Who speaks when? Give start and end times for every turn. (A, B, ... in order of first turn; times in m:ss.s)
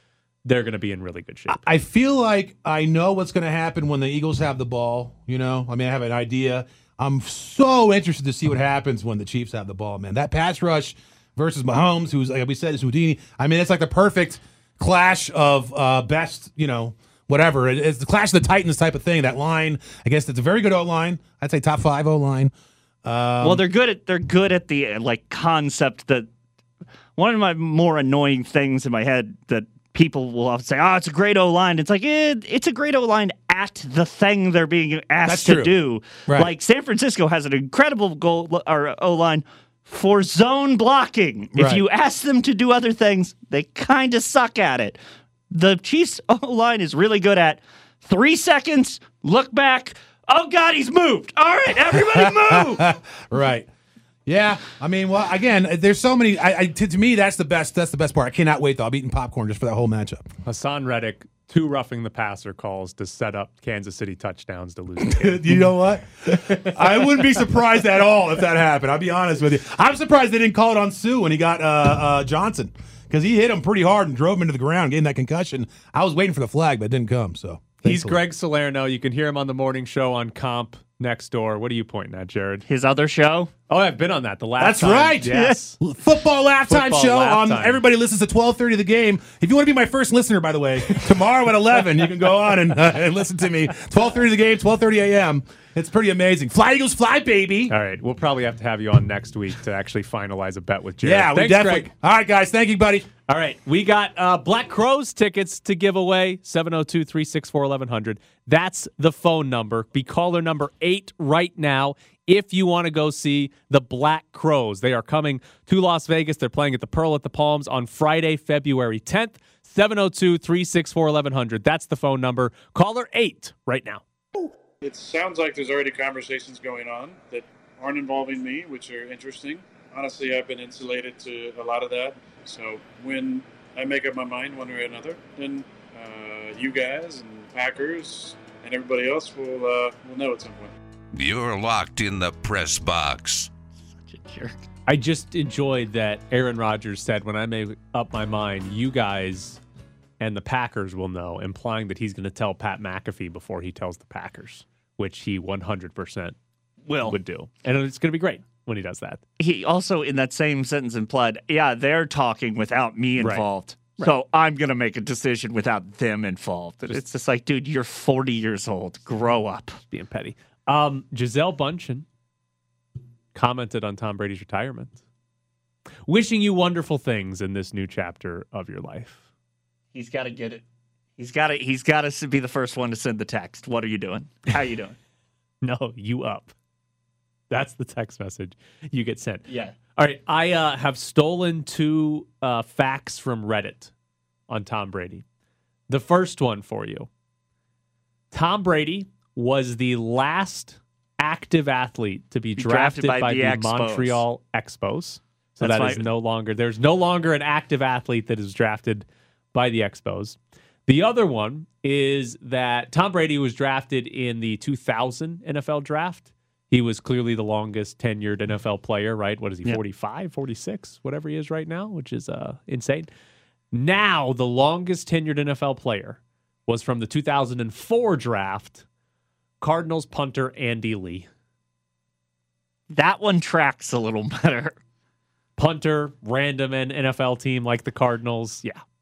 0:00.4-0:01.6 A
0:01.5-0:22.5 B
0:23.0-0:23.6 B
0:23.4-0:26.3 C
0:27.2-0:45.0 C
0:35.2-0:35.7 B
0:36.3-0:36.5 B
0:41.6-0:41.8 B
0:45.5-0:53.0 C
0:51.9-0:53.7 B
0:54.3-1:00.3 B
1:00.5-1:05.7 A
1:05.0-1:18.2 B
1:06.3-1:07.1 A
1:17.8-1:22.6 A
1:22.7-1:23.5 C
1:23.7-1:25.8 A
1:24.6-1:37.8 B
1:25.3-1:25.6 C
1:26.7-1:27.8 A
1:37.7-1:41.9 A
1:41.0-1:43.1 B
1:43.3-2:04.5 A
2:04.8-2:20.8 D
2:21.1-2:23.5 E
2:24.0-2:24.6 C
2:24.9-2:29.6 A
2:30.2-2:36.4 A
2:36.9-2:37.2 C
2:37.0-2:39.2 A
2:39.4-2:49.8 C
2:43.2-2:43.4 A
2:49.9-2:52.1 A
2:53.3-2:55.0 A
2:56.1-2:59.2 A
2:59.9-3:00.6 C
3:01.2-3:05.0 C
3:05.6-3:06.5 A
3:07.5-3:13.9 A
3:09.5-3:09.8 C
3:14.5-3:15.2 A
3:15.9-3:17.1 A
3:18.3-3:43.1 A
3:22.6-3:24.2 C
3:25.6-3:26.0 C
3:43.7-3:48.8 A
3:49.6-3:51.3 A
3:52.9-3:54.8 C
3:55.6-3:58.8 A